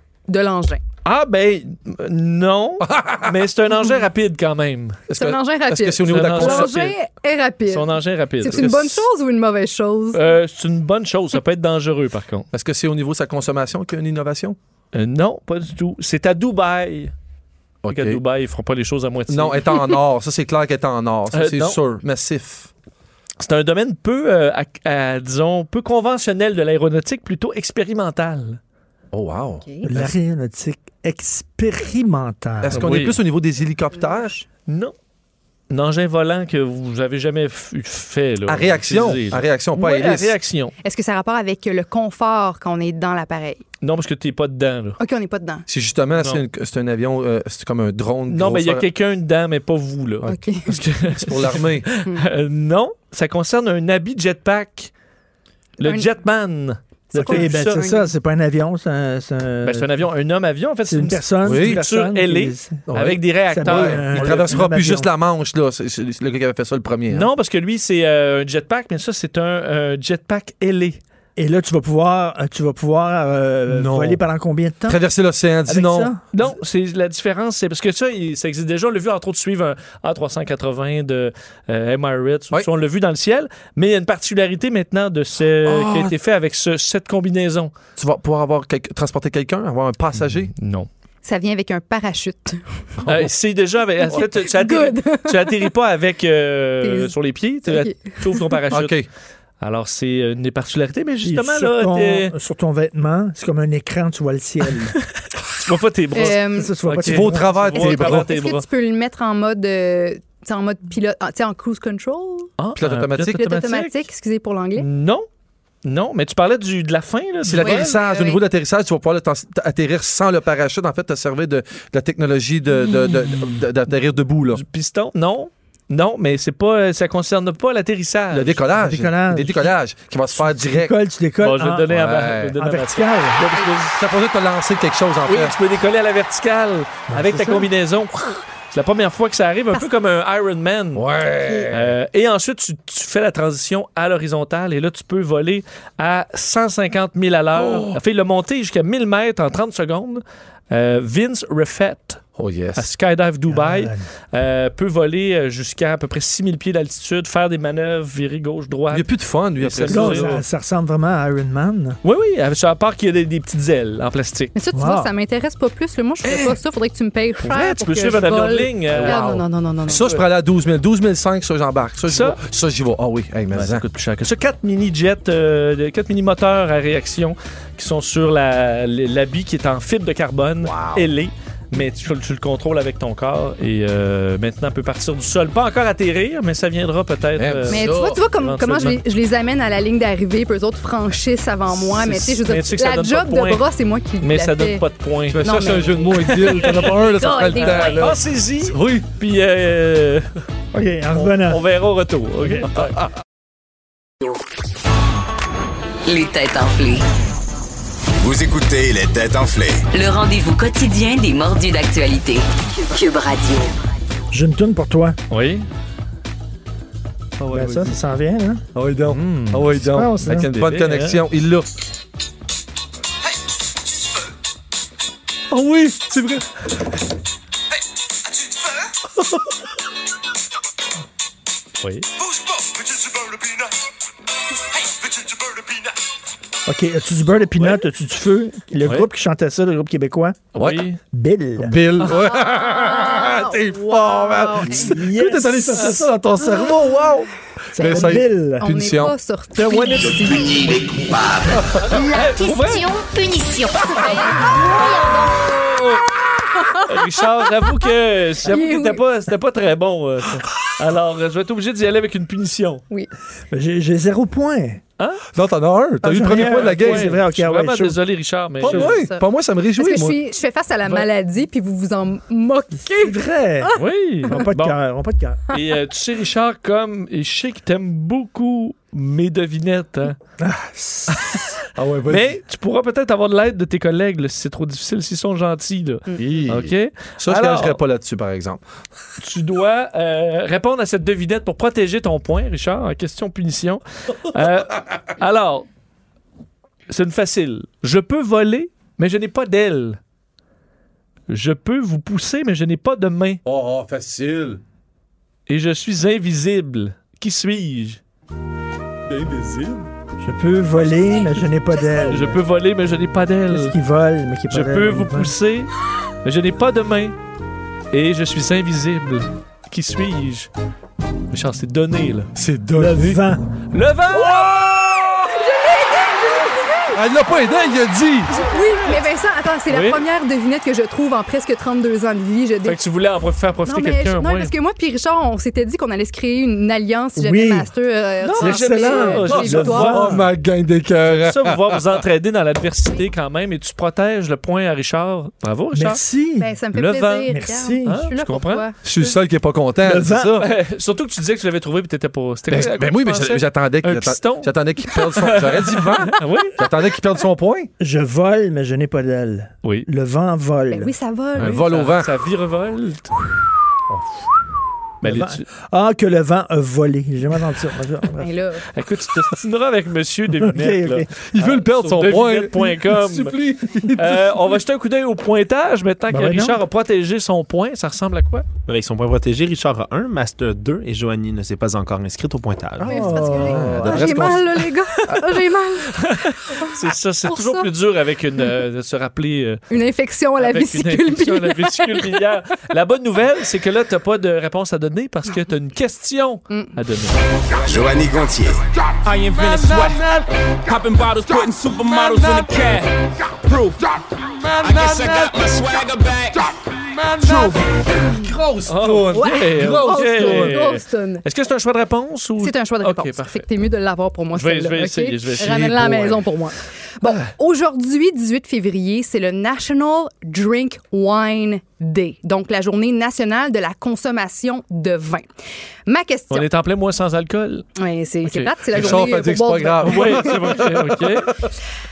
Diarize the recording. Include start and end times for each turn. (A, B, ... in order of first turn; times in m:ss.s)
0:00.3-0:00.8 A
0:01.0-0:05.0 B
0:02.8-0:03.3 C
0:05.1-0:06.8 C
0:05.1-0:10.2 A
0:06.1-0:06.9 B
0:07.7-0:08.9 B
0:08.5-0:09.0 C
0:10.1-0:12.5 B
0:12.5-0:14.6 C
0:14.9-0:17.1 B
0:17.8-0:18.2 C
0:17.9-0:19.7 B
0:19.3-0:22.7 C
0:21.3-0:21.8 B
0:23.4-0:28.6 B
0:29.1-0:30.1 C
0:29.8-0:32.9 D
0:32.6-0:34.4 C
0:32.7-0:33.2 B
0:34.0-0:34.3 A
0:34.7-0:34.9 B
0:35.7-0:40.7 B
0:38.5-0:40.3 C
0:40.8-0:43.6 A
0:43.8-0:45.0 B
0:45.0-0:45.6 A
0:45.7-0:48.8 C
0:48.3-0:54.9 B
0:50.2-0:51.9 C
0:50.3-0:50.7 A
0:55.8-0:57.8 B
0:55.8-0:56.1 A
0:57.1-0:58.1 A
0:57.1-1:00.0 D
0:59.6-1:04.6 B
1:00.9-1:02.8 D
1:01.4-1:01.8 C
1:02.9-1:07.3 C
1:03.5-1:05.1 D
1:07.1-1:11.0 B
1:11.4-1:15.0 D
1:13.7-1:14.2 C
1:14.9-1:16.1 C
1:15.6-1:16.2 D
1:16.3-1:27.7 B
1:25.6-1:26.1 C
1:28.0-1:30.5 C
1:30.5-1:30.9 B
1:31.2-1:32.6 A
1:33.0-1:33.3 C
1:33.0-1:39.0 B
1:34.1-1:35.7 A
1:36.8-1:37.1 A
1:37.6-1:38.6 A
1:38.7-1:39.1 C
1:39.6-1:42.3 B
1:41.2-1:45.0 D
1:45.6-1:48.6 B
1:46.1-1:46.8 A
1:46.4-1:47.8 D
1:46.9-1:48.3 C
1:47.7-1:52.5 A
1:52.6-1:54.0 B
1:52.8-1:53.4 C
1:53.3-1:54.8 A
1:54.8-1:55.2 B
1:55.8-1:58.0 B
1:57.4-2:04.6 C
1:57.6-1:58.4 A
2:04.5-2:08.6 B
2:08.3-2:10.9 C
2:08.8-2:09.7 D
2:10.4-2:12.0 D
2:11.4-2:14.0 B
2:11.9-2:12.5 C
2:12.5-2:13.4 D
2:14.0-2:15.5 C
2:15.2-2:21.0 B
2:17.1-2:17.7 D
2:20.9-2:22.0 C
2:21.7-2:32.2 B
2:27.5-2:28.0 C
2:32.4-2:32.9 C
2:32.8-2:40.4 B
2:33.5-2:34.0 D
2:38.9-2:40.4 C
2:39.9-2:42.0 D
2:42.0-2:44.5 B
2:44.5-2:50.1 A
2:44.7-2:45.1 D
2:47.4-2:49.2 B
2:48.9-2:53.8 C
2:52.1-2:52.4 B
2:53.5-3:09.0 B
3:00.6-3:01.1 C
3:07.4-3:08.2 C
3:07.7-3:14.8 A
3:11.7-3:13.6 B
3:14.2-3:17.0 B
3:15.3-3:19.1 C
3:15.4-3:18.0 A
3:17.5-3:20.3 B
3:20.7-3:21.6 D
3:21.2-3:23.0 B
3:22.4-3:22.7 D
3:26.0-3:27.0 E
3:28.2-3:29.8 F
3:29.9-3:33.8 E
3:34.3-3:35.2 D
3:35.3-3:35.6 B
3:37.4-3:37.9 B
3:37.5-3:38.6 D
3:38.7-3:41.7 C
3:39.1-3:39.6 B
3:39.7-3:40.5 D
3:40.2-3:41.2 B
3:45.5-3:46.4 B
3:51.8-3:52.1 B
3:56.6-4:00.4 D
4:00.5-4:01.0 B
4:00.6-4:00.8 C
4:01.1-4:01.7 D
4:01.6-4:09.2 C
4:02.2-4:05.0 A
4:04.7-4:06.1 D
4:07.7-4:08.7 D
4:07.8-4:10.7 A
4:09.6-4:10.4 B
4:10.4-4:11.5 F
4:11.8-4:15.7 A
4:11.9-4:12.9 B
4:14.3-4:16.1 B
4:16.5-4:17.2 A
4:16.8-4:22.8 B
4:18.4-4:19.0 A
4:23.5-4:24.8 D
4:25.0-4:25.2 B
4:25.3-4:27.1 C
4:26.0-4:28.0 D
4:26.3-4:29.0 B
4:28.6-4:30.2 C
4:28.6-4:33.8 A
4:32.9-4:35.4 D
4:33.8-4:34.8 B
4:35.5-4:40.2 B
4:40.4-4:41.4 D
4:41.1-4:41.6 B
4:41.7-4:42.3 C
4:42.1-4:47.8 B
4:46.2-4:48.6 C
4:49.2-4:55.7 B
4:56.9-5:00.0 B
5:01.3-5:03.4 B
5:03.4-5:04.6 C
5:05.5-5:08.0 B
5:09.1-5:09.9 C
5:10.2-5:12.4 D
5:12.0-5:13.7 B
5:13.5-5:15.3 D
5:14.5-5:15.7 B
5:16.2-5:17.2 B
5:17.9-5:20.5 B
5:21.3-5:22.3 B
5:22.4-5:23.2 C
5:22.7-5:23.5 D
5:23.7-5:24.6 B
5:24.1-5:25.4 C
5:25.3-5:27.0 A
5:26.9-5:28.3 C
5:28.3-5:32.8 A
5:28.3-5:29.0 B
5:29.7-5:30.0 B
5:32.6-5:34.5 B
5:33.6-5:40.1 A
5:37.2-5:37.7 D
5:38.2-5:40.1 B
5:38.4-5:40.3 D
5:39.3-5:41.9 C
5:41.1-5:46.0 B
5:45.7-5:46.5 D
5:46.4-5:48.8 A
5:46.7-5:49.1 B
5:47.3-5:48.1 D
5:48.8-5:50.5 C
5:49.8-5:50.5 D
5:50.4-5:56.6 B
5:52.5-5:57.7 C
5:57.8-6:00.9 D
6:00.7-6:01.6 A
6:01.4-6:02.1 C
6:01.4-6:03.1 B
6:05.0-6:08.3 D
6:05.0-6:05.4 B
6:08.2-6:08.6 A
6:08.7-6:13.4 B
6:10.4-6:11.1 D
6:11.3-6:14.3 C
6:13.9-6:18.4 B
6:16.1-6:16.6 D
6:18.7-6:22.9 G
6:22.8-6:24.4 D
6:22.8-6:27.7 A
6:23.4-6:25.2 C
6:25.9-6:29.6 B
6:29.7-6:32.2 A
6:30.4-6:37.2 B
6:36.5-6:36.7 A
6:37.6-6:38.6 F
6:39.0-6:43.9 H
6:44.6-6:46.5 H
6:47.2-6:50.6 C
6:48.7-6:53.4 B
6:49.1-6:51.2 A
6:52.4-7:05.2 A
6:54.3-6:56.2 B
7:05.9-7:06.5 A
7:06.3-7:07.7 B
7:07.8-7:10.6 A
7:08.2-7:09.1 B
7:08.7-7:11.1 C
7:09.8-7:11.4 B